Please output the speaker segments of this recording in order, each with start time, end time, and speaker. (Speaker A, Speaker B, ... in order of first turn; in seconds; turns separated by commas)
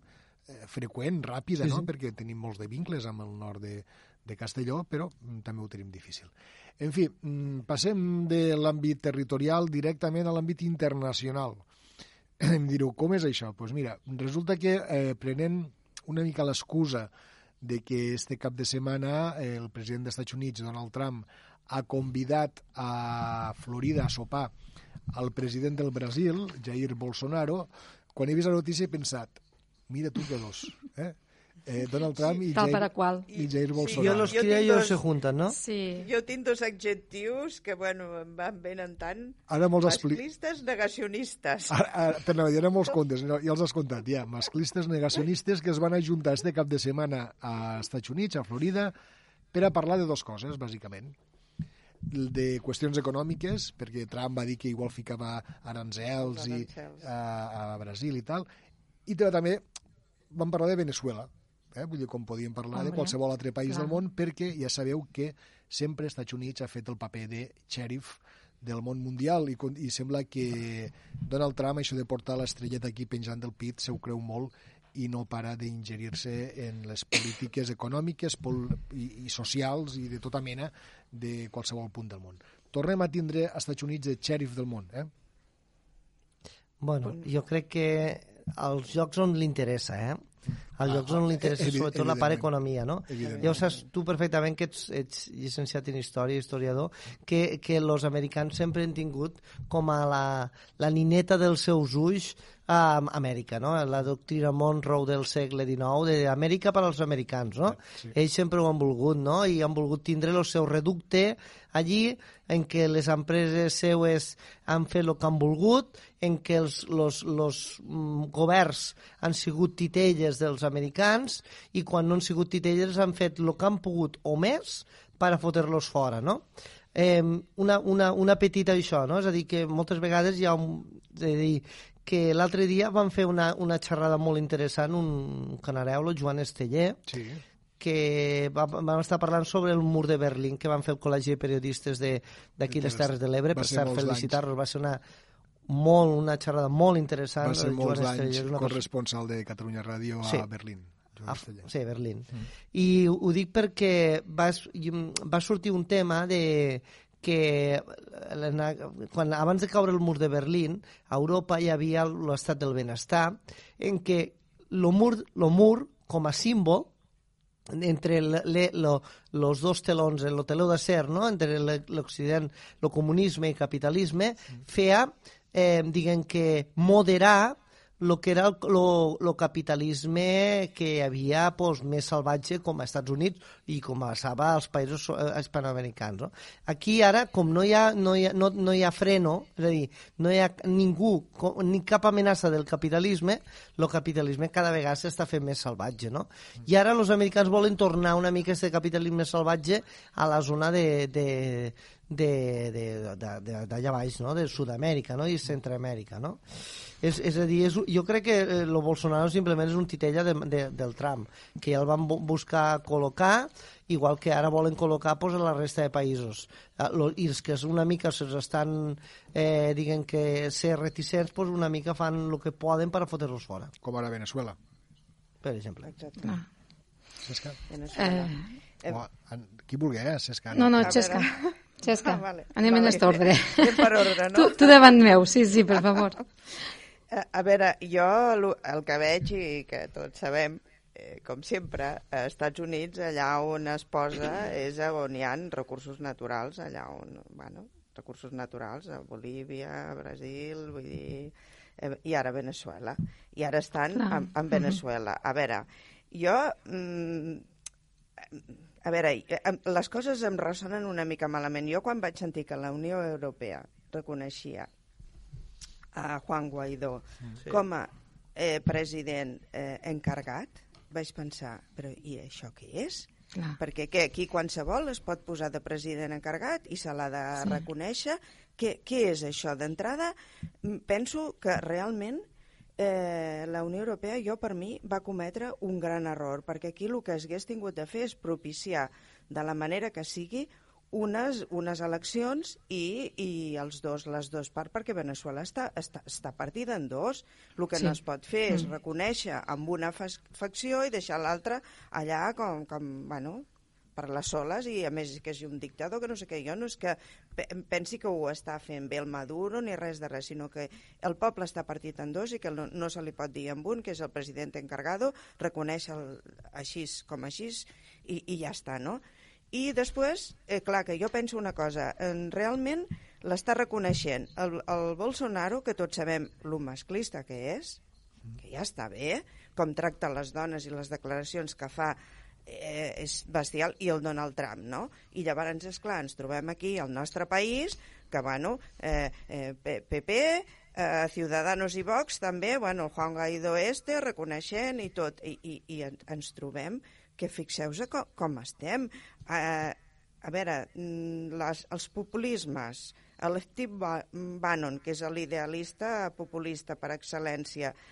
Speaker A: 0.5-11.7, Speaker B: 1.6-1.9, Speaker A: 12.4-17.1, Speaker A: 17.6-24.5, Speaker A: 25.1-34.4, Speaker C: 32.5-33.3, Speaker D: 33.3-35.0, Speaker B: 33.9-35.6, Speaker C: 35.5-36.1, Speaker D: 35.9-41.8, Speaker A: 39.5-40.2, Speaker A: 41.7-48.9, Speaker A: 49.5-51.1, Speaker A: 52.1-58.5, Speaker D: 56.2-57.1, Speaker A: 59.0-59.6, Speaker A: 60.3-85.1, Speaker C: 62.7-63.1, Speaker C: 63.7-64.0, Speaker B: 86.8-90.2, Speaker B: 90.8-137.0, Speaker A: 90.9-92.5, Speaker A: 93.1-93.7, Speaker D: 93.2-93.8, Speaker A: 137.1-137.4, Speaker B: 137.8-145.0, Speaker A: 142.7-144.4, Speaker B: 145.7-148.8, Speaker A: 147.4-151.7, Speaker B: 150.2-150.5, Speaker B: 151.3-166.9, Speaker B: 167.7-223.7, Speaker A: 223.8-224.6, Speaker B: 225.4-225.9, Speaker D: 225.8-226.3, Speaker A: 227.2-227.6, Speaker D: 227.7-229.0, Speaker C: 227.9-228.5, Speaker A: 228.9-231.2, Speaker C: 230.5-231.3, Speaker D: 230.8-234.9, Speaker C: 231.8-236.2, Speaker D: 237.1-257.4, Speaker C: 253.9-254.8, Speaker D: 258.2-264.7, Speaker D: 265.9-273.1, Speaker D: 273.6-282.2, Speaker D: 282.8-303.4, Speaker D: 303.9-319.0, Speaker D: 319.5-327.8, Speaker D: 328.4-357.7